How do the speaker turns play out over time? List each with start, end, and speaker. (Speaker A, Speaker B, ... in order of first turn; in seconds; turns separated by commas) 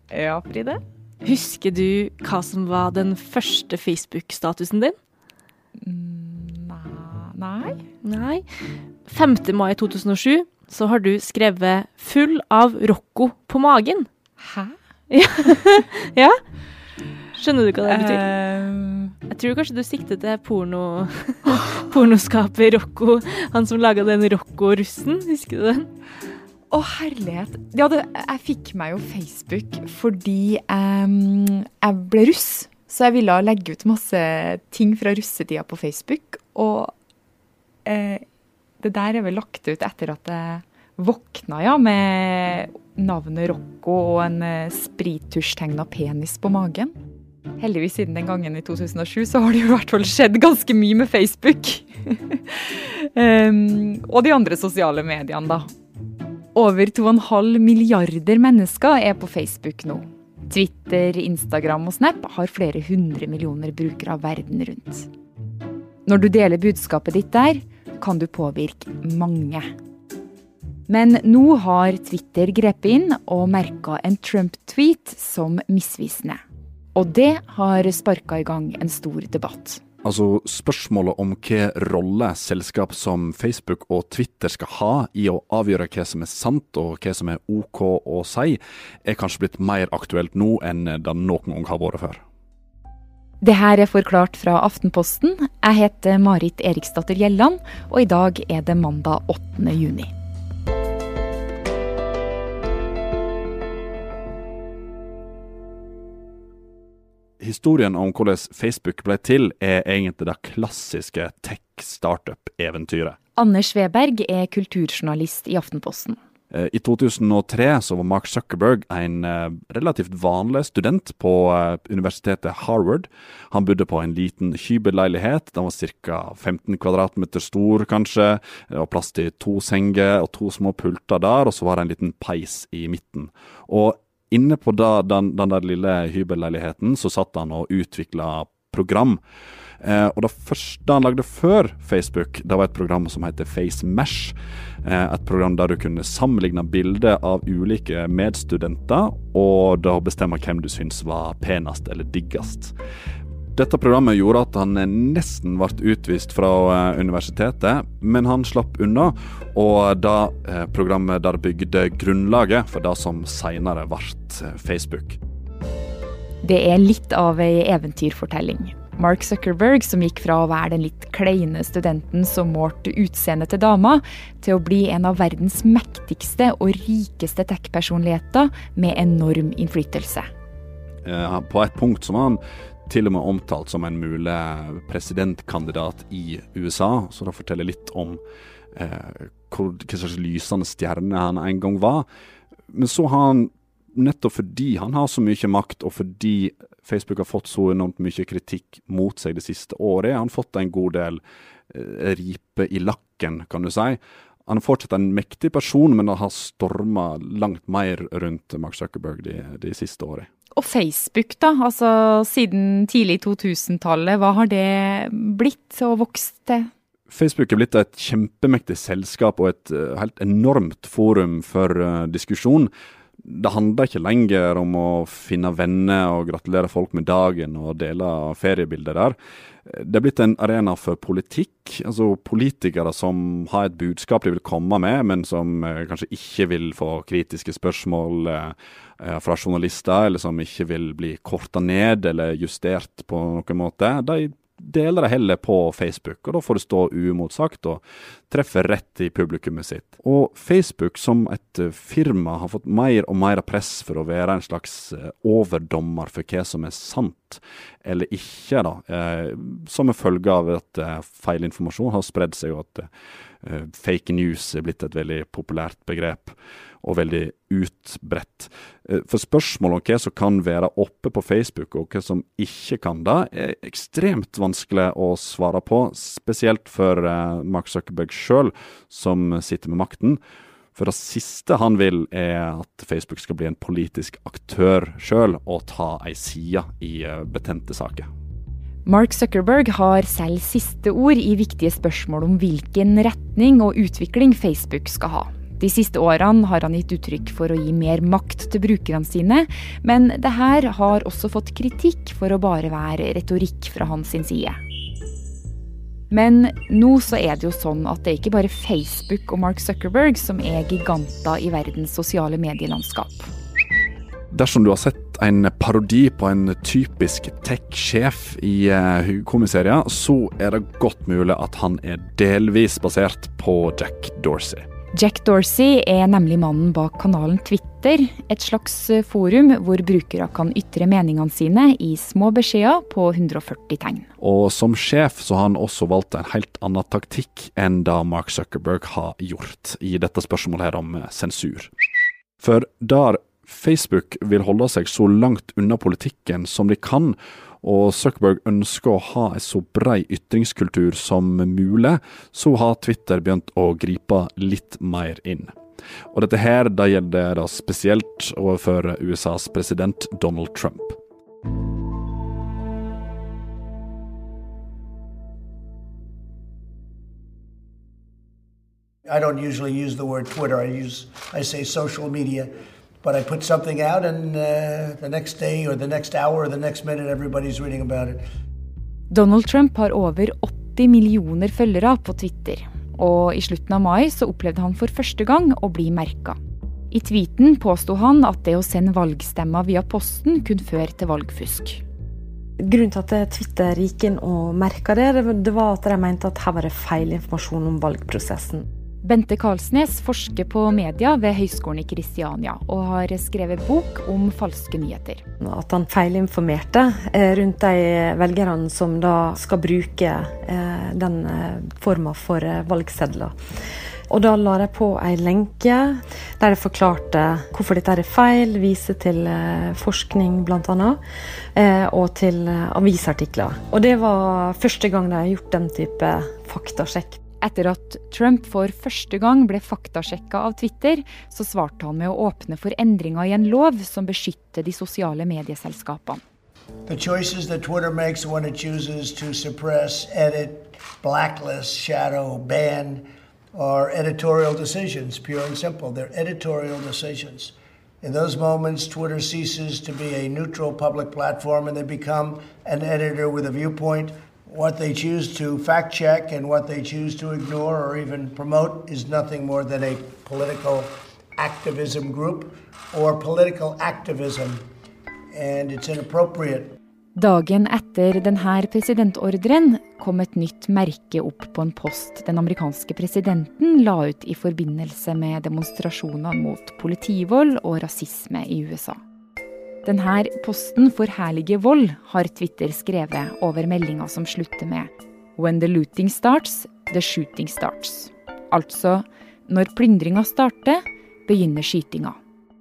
Speaker A: 0.1-0.8, Speaker B: 1.2-5.0, Speaker A: 5.8-7.8, Speaker B: 8.0-14.1, Speaker A: 14.4-14.8, Speaker B: 15.1-16.4, Speaker B: 17.3-18.3, Speaker A: 17.9-19.1, Speaker B: 19.3-25.9, Speaker A: 26.7-36.9, Speaker A: 37.9-38.2, Speaker A: 38.8-47.0, Speaker A: 47.6-55.7, Speaker A: 56.5-65.1, Speaker A: 66.1-69.7, Speaker A: 70.9-76.4, Speaker A: 77.0-79.8, Speaker C: 80.0-92.2, Speaker A: 93.4-100.1, Speaker C: 107.4-113.2, Speaker A: 113.4-116.2, Speaker C: 116.5-139.2, Speaker C: 139.8-152.7, Speaker C: 153.6-165.2, Speaker A: 166.4-180.3, Speaker C: 181.0-188.2, Speaker C: 188.8-192.1, Speaker C: 192.7-210.3, Speaker A: 210.6-216.7, Speaker C: 217.1-222.7, Speaker C: 223.2-262.9, Speaker C: 263.4-280.2, Speaker C: 280.8-288.1, Speaker A: 288.9-304.6, Speaker A: 306.1-313.3, Speaker C: 314.3-324.7, Speaker A: 324.9-334.1, Speaker C: 334.2-341.7, Speaker C: 342.4-355.5, Speaker C: 356.1-361.0, Speaker D: 369.1-372.5, Speaker D: 373.0-378.2, Speaker A: 379.1-386.4, Speaker A: 386.9-391.8, Speaker E: 392.6-398.7, Speaker A: 399.0-405.2, Speaker E: 405.4-413.3, Speaker E: 414.1-421.0, Speaker E: 421.6-427.2, Speaker A: 427.4-436.2, Speaker D: 436.9-464.6, Speaker D: 465.3-466.8, Speaker A: 467.2-479.0, Speaker A: 479.9-492.2